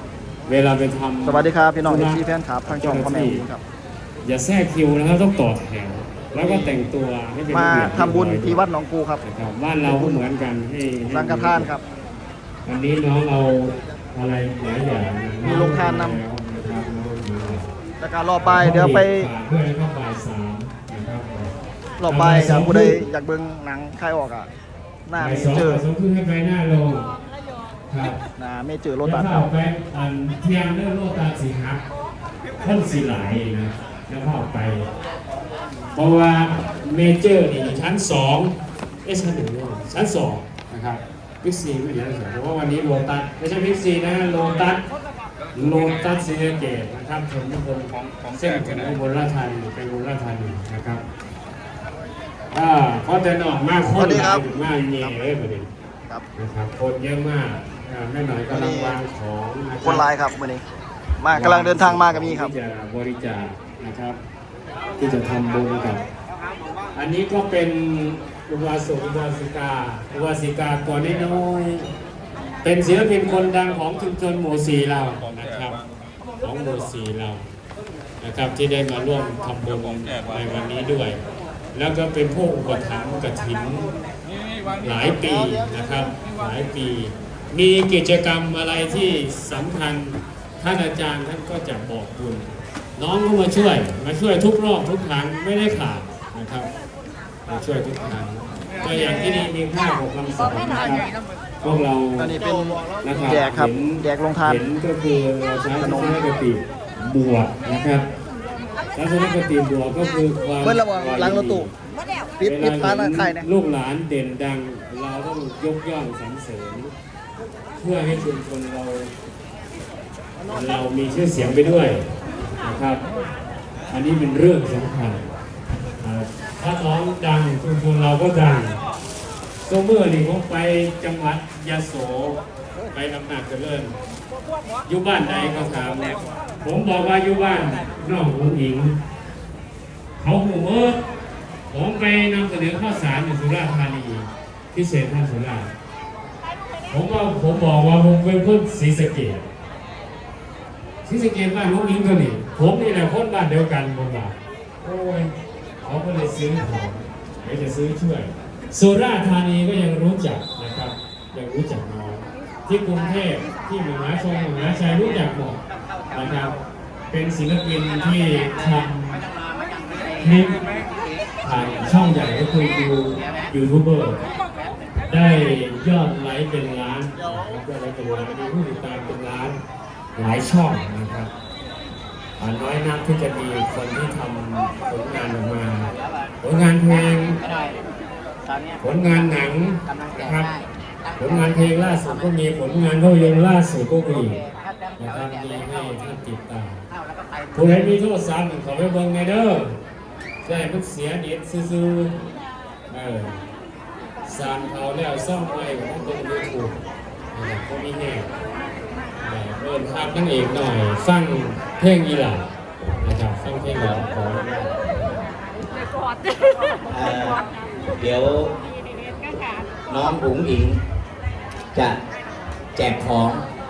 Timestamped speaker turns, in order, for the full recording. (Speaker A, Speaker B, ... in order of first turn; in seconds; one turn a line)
Speaker A: 0.5-3.4
Speaker B: 1.2-3.6
Speaker A: 4.2-8.6
Speaker B: 6.4-6.8
Speaker B: 7.5-9.2
Speaker A: 9.2-11.7
Speaker B: 9.8-10.2
Speaker B: 11.1-11.8
Speaker A: 12.7-17.7
Speaker B: 15.4-16.2
Speaker B: 18.0-19.3
Speaker A: 18.4-21.5
Speaker B: 22.0-24.5
Speaker A: 22.1-23.0
Speaker B: 25.1-25.8
Speaker A: 25.2-27.1
Speaker A: 27.9-28.2
Speaker B: 28.4-29.5
Speaker A: 29.0-31.8
Speaker A: 32.6-34.9
Speaker A: 35.9-38.5
Speaker A: 39.0-44.8
Speaker A: 45.5-51.0
Speaker A: 52.5-55.7
Speaker B: 53.9-55.2
Speaker A: 56.4-60.0
Speaker B: 58.5-59.0
Speaker B: 59.8-60.6
Speaker B: 61.2-62.5
Speaker A: 61.3-64.2
Speaker A: 65.0-66.0
Speaker A: 66.9-71.9
Speaker A: 72.6-75.8
Speaker A: 76.4-77.4
Speaker A: 78.2-81.2
Speaker A: 81.7-83.9
Speaker A: 84.8-96.7
Speaker A: 97.5-101.1
Speaker A: 101.6-102.3
Speaker B: 102.2-104.6
Speaker A: 103.0-108.1
Speaker B: 105.8-106.2
Speaker A: 108.9-111.7
Speaker B: 110.6-111.7
Speaker B: 112.4-113.5
Speaker A: 112.4-116.9
Speaker A: 117.8-119.1
Speaker A: 120.5-122.0
Speaker A: 122.6-123.0
Speaker A: 123.9-125.2
Speaker A: 126.0-128.8
Speaker A: 129.7-132.4
Speaker A: 132.9-133.9
Speaker A: 134.8-139.0
Speaker A: 140.2-141.0
Speaker A: 141.7-145.7
Speaker A: 146.9-149.4
Speaker A: 151.0-165.6
Speaker A: 166.1-166.6
Speaker A: 167.1-169.2
Speaker C: 169.5-170.3
Speaker A: 170.2-170.6
Speaker A: 171.4-174.2
Speaker C: 173.3-173.5
Speaker A: 175.1-179.6
Speaker A: 180.1-181.3
Speaker A: 182.4-187.4
Speaker C: 185.9-187.8
Speaker C: 188.4-192.3
Speaker A: 188.8-190.5
Speaker A: 191.2-194.4
Speaker C: 194.1-196.0
Speaker A: 195.0-196.8
Speaker C: 196.9-197.9
Speaker A: 197.5-199.8
Speaker A: 200.4-202.2
Speaker A: 202.9-203.4
Speaker A: 204.2-206.8
Speaker A: 207.3-208.3
Speaker A: 209.2-212.5
Speaker A: 213.0-214.7
Speaker C: 213.8-214.0
Speaker C: 216.9-217.4
Speaker C: 218.0-218.6
Speaker C: 219.9-220.8
Speaker C: 222.8-223.4